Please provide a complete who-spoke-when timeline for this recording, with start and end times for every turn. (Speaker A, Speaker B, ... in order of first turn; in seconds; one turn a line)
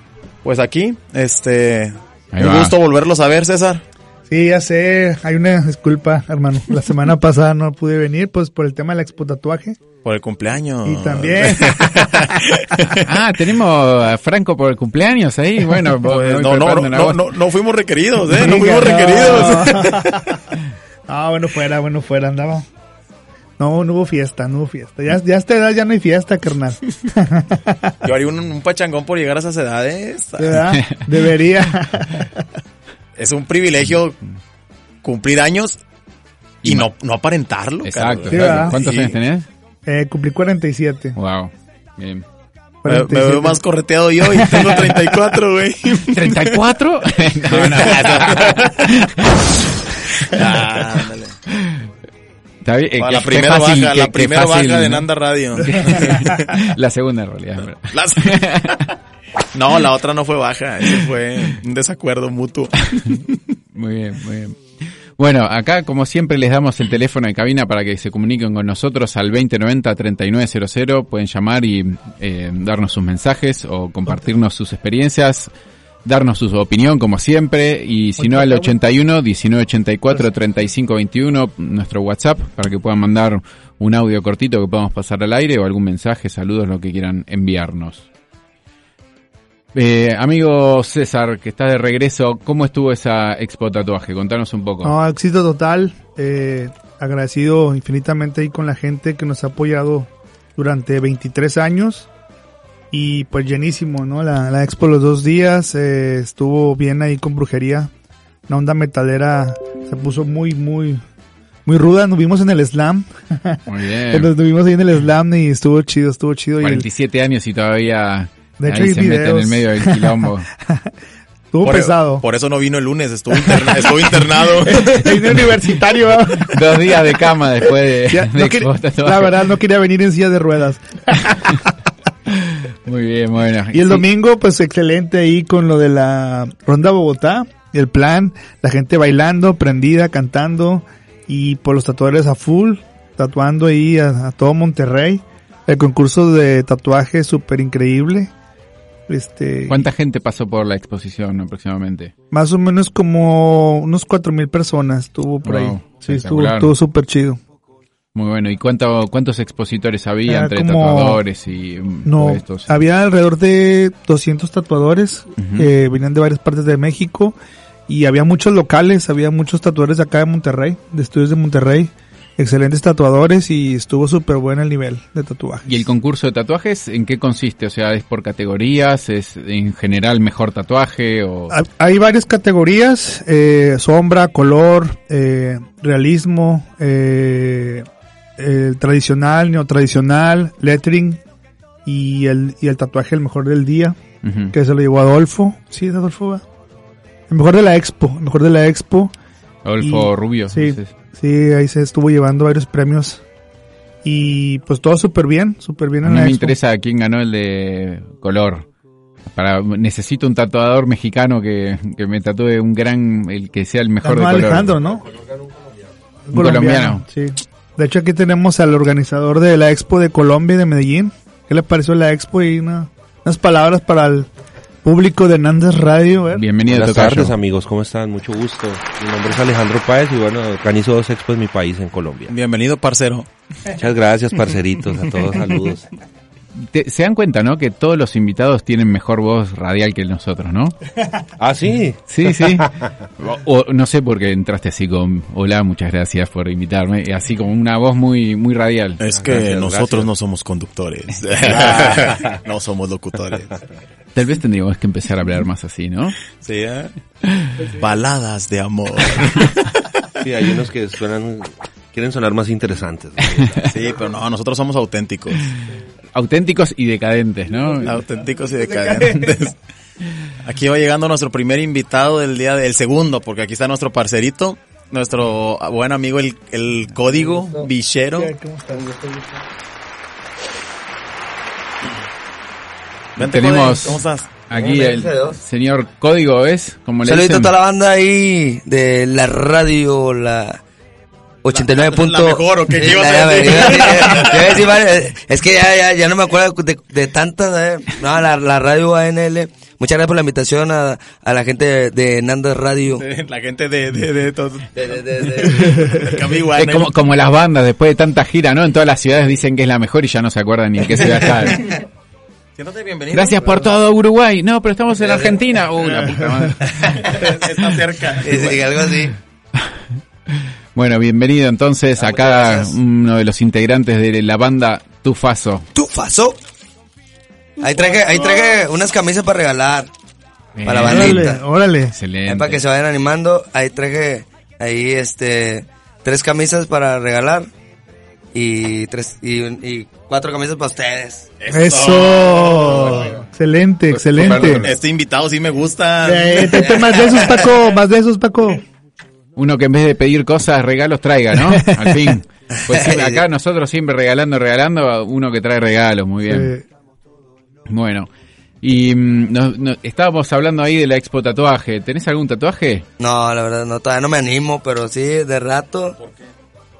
Speaker A: 0.4-3.8
Speaker B: 2.3-2.7
Speaker C: 4.3-9.8
Speaker A: 10.0-13.0
Speaker C: 10.8-12.6
Speaker B: 13.0-17.3
Speaker A: 16.0-20.3
Speaker C: 18.3-20.4
Speaker C: 21.1-22.7
Speaker C: 23.6-27.9
Speaker A: 28.0-30.6
Speaker C: 30.4-32.4
Speaker B: 30.7-31.1
Speaker A: 33.1-34.2
Speaker A: 35.0-35.8
Speaker B: 36.6-36.9
Speaker A: 36.6-39.1
Speaker B: 37.8-39.5
Speaker C: 38.3-38.8
Speaker C: 39.9-41.1
Speaker B: 41.1-42.2
Speaker C: 42.8-43.6
Speaker A: 42.9-46.5
Speaker B: 46.1-49.5
Speaker A: 47.5-48.9
Speaker A: 50.2-51.4
Speaker B: 51.5-51.8
Speaker B: 52.6-55.1
Speaker A: 53.0-56.6
Speaker B: 55.6-58.8
Speaker A: 57.9-58.9
Speaker A: 59.5-63.5
Speaker B: 63.7-75.5
Speaker B: 76.0-88.0
Speaker C: 78.2-78.7
Speaker B: 89.7-94.9
Speaker C: 94.8-102.1
Speaker C: 102.9-107.9
Speaker C: 108.5-111.0
Speaker C: 111.7-116.8
Speaker B: 113.7-114.3
Speaker B: 116.6-120.5
Speaker C: 118.6-120.9
Speaker C: 121.5-122.2
Speaker A: 121.6-125.2
Speaker C: 124.8-127.0
Speaker B: 126.4-129.4
Speaker C: 128.1-131.7
Speaker B: 132.3-134.0
Speaker C: 133.7-148.3
Speaker C: 149.1-149.9
Speaker B: 149.7-152.1
Speaker C: 152.3-157.4
Speaker B: 155.4-156.7
Speaker B: 158.1-162.7
Speaker C: 160.2-161.2
Speaker C: 162.0-167.4
Speaker B: 165.4-165.7
Speaker C: 167.9-175.8
Speaker B: 175.7-181.5
Speaker C: 181.5-187.9
Speaker C: 188.4-191.2
Speaker C: 191.8-194.0
Speaker B: 194.2-194.5
Speaker C: 194.5-196.4
Speaker C: 197.3-199.1
Speaker B: 199.6-200.9
Speaker C: 199.8-203.2
Speaker C: 204.0-206.5
Speaker B: 206.0-208.7
Speaker B: 209.3-214.7
Speaker C: 214.0-215.0
Speaker D: 215.0-215.7
Speaker C: 216.3-224.3
Speaker B: 216.3-217.0
Speaker C: 224.8-226.4
Speaker B: 226.3-227.3
Speaker D: 226.7-232.3
Speaker A: 232.3-233.3
Speaker D: 233.8-235.8
Speaker B: 236.6-240.8
Speaker D: 241.4-242.9
Speaker B: 242.1-249.0
Speaker A: 249.0-253.6
Speaker D: 249.1-250.1
Speaker D: 251.9-252.2
Speaker B: 254.1-256.2
Speaker A: 256.4-256.9
Speaker B: 257.2-257.7
Speaker A: 257.7-260.1
Speaker D: 260.2-263.7
Speaker B: 263.4-263.6
Speaker A: 263.6-265.5
Speaker B: 266.1-268.0
Speaker A: 267.8-269.5
Speaker A: 270.4-278.3
Speaker E: 277.1-277.7
Speaker C: 278.2-278.9
Speaker E: 278.9-279.2
Speaker A: 283.2-284.3
Speaker B: 283.2-287.5
Speaker E: 284.5-285.4
Speaker E: 287.0-290.6
Speaker E: 291.4-303.0
Speaker A: 291.5-294.6
Speaker A: 302.9-306.9
Speaker E: 304.7-305.9
Speaker B: 306.6-311.7
Speaker A: 312.6-313.8
Speaker B: 313.1-317.1
Speaker E: 315.0-315.4
Speaker E: 316.7-317.1
Speaker A: 317.0-318.6
Speaker E: 318.2-319.1
Speaker B: 320.3-325.6
Speaker E: 322.0-322.7
Speaker E: 325.7-326.4
Speaker E: 327.6-329.9
Speaker A: 327.7-328.2
Speaker B: 330.5-331.3
Speaker E: 330.6-331.4
Speaker C: 330.7-331.9
Speaker B: 331.9-332.6
Speaker E: 332.2-337.5
Speaker E: 338.3-341.3
Speaker A: 341.4-343.1
Speaker C: 341.5-344.7
Speaker B: 343.9-344.7
Speaker A: 344.2-346.8
Speaker C: 346.0-348.6
Speaker E: 346.6-347.4
Speaker B: 349.4-356.5
Speaker C: 351.6-352.1
Speaker E: 352.7-353.2
Speaker C: 356.3-356.6
Speaker B: 357.7-358.1
Speaker B: 358.6-362.8
Speaker E: 363.0-365.9
Speaker A: 366.0-366.3